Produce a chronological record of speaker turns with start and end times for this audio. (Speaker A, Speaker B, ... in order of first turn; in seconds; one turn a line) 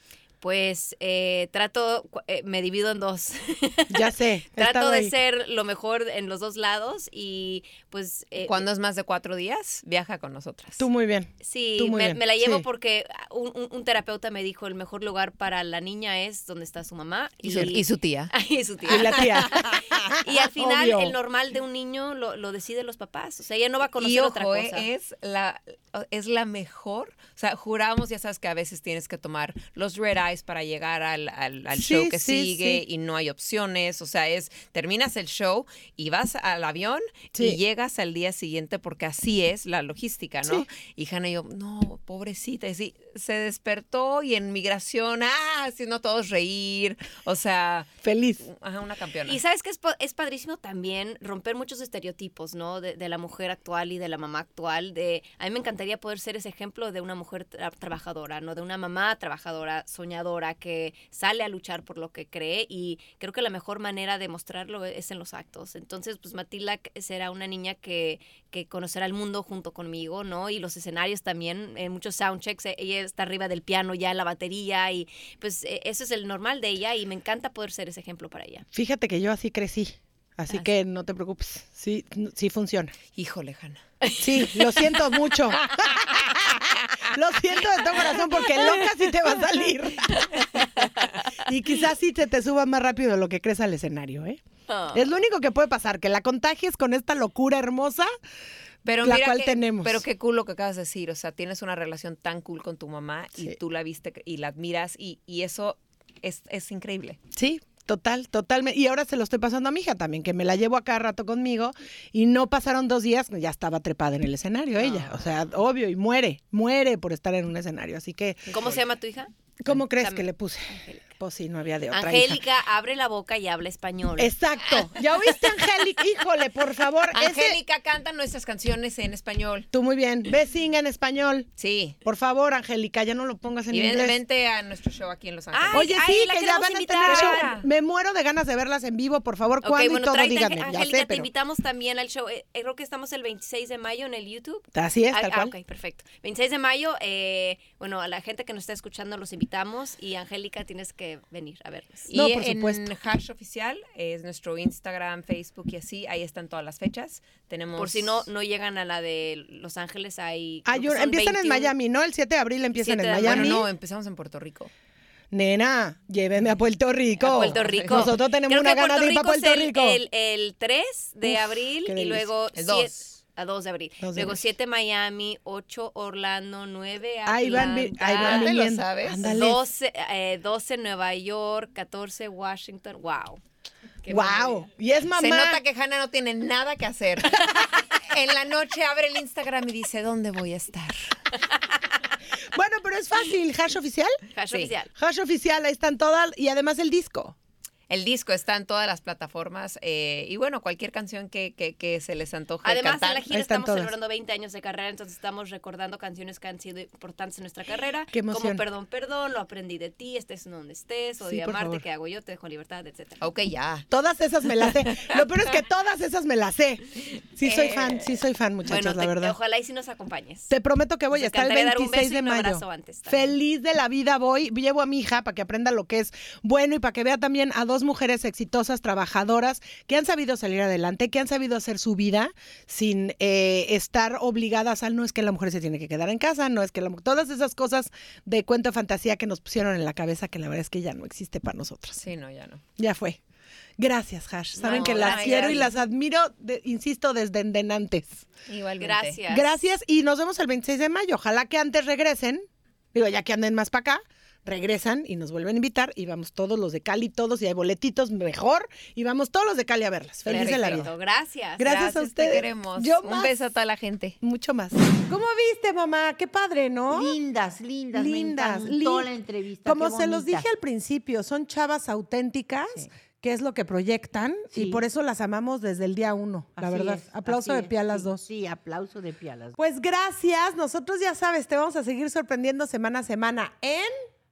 Speaker A: 0.4-8.6
Speaker B: 3.9-5.1
Speaker C: 8.4-10.8
Speaker B: 10.8-12.6
Speaker A: 11.4-24.9
Speaker C: 17.4-18.3
Speaker B: 17.5-17.7
Speaker B: 18.9-21.1
Speaker C: 18.9-19.2
Speaker C: 24.0-47.9
Speaker B: 31.7-32.8
Speaker B: 37.4-37.6
Speaker B: 48.0-48.4
Speaker C: 48.4-49.4
Speaker A: 49.3-78.7
Speaker B: 78.7-82.9
Speaker C: 83.2-83.8
Speaker A: 84.0-84.7
Speaker B: 84.2-90.5
Speaker A: 88.3-88.8
Speaker A: 90.2-91.3
Speaker B: 91.4-94.4
Speaker A: 94.7-95.1
Speaker B: 94.9-98.1
Speaker C: 98.8-107.2
Speaker B: 99.0-100.0
Speaker B: 107.3-118.5
Speaker A: 114.8-115.2
Speaker A: 118.5-121.0
Speaker B: 119.6-122.4
Speaker A: 121.9-124.3
Speaker B: 124.2-127.6
Speaker C: 127.1-129.7
Speaker B: 129.7-131.5
Speaker C: 131.6-132.0
Speaker B: 132.0-134.2
Speaker C: 133.7-135.9
Speaker A: 135.5-137.6
Speaker B: 135.7-141.3
Speaker C: 137.1-137.6
Speaker A: 139.6-152.1
Speaker B: 144.7-145.5
Speaker C: 152.1-158.3
Speaker B: 152.1-152.9
Speaker A: 157.8-161.7
Speaker B: 160.7-163.7
Speaker A: 162.8-163.6
Speaker C: 163.2-164.7
Speaker B: 165.3-170.0
Speaker A: 167.2-178.5
Speaker C: 167.6-168.1
Speaker B: 171.3-172.3
Speaker C: 172.6-173.1
Speaker B: 174.0-174.4
Speaker B: 177.3-179.6
Speaker C: 178.2-179.4
Speaker A: 179.2-183.4
Speaker A: 184.0-184.7
Speaker B: 184.1-185.6
Speaker C: 185.2-191.2
Speaker B: 192.5-194.2
Speaker A: 194.3-194.9
Speaker B: 194.9-197.4
Speaker C: 197.9-203.3
Speaker A: 202.6-213.3
Speaker B: 203.3-203.9
Speaker B: 208.1-208.6
Speaker B: 211.2-211.8
Speaker C: 213.2-213.9
Speaker B: 213.9-219.4
Speaker C: 214.6-215.2
Speaker C: 217.4-217.9
Speaker A: 218.7-220.5
Speaker B: 220.5-242.0
Speaker A: 221.1-223.3
Speaker C: 241.9-242.6
Speaker B: 242.8-243.2
Speaker B: 243.8-248.2
Speaker A: 244.6-245.7
Speaker C: 244.6-245.7
Speaker C: 248.5-249.2
Speaker A: 248.8-249.5
Speaker B: 249.3-260.9
Speaker C: 260.3-260.9
Speaker A: 260.3-262.1
Speaker B: 261.6-263.3
Speaker C: 261.8-264.2
Speaker B: 264.2-267.2
Speaker D: 266.9-270.5
Speaker B: 267.9-278.2
Speaker D: 274.5-274.8
Speaker D: 276.6-279.6
Speaker B: 279.6-283.9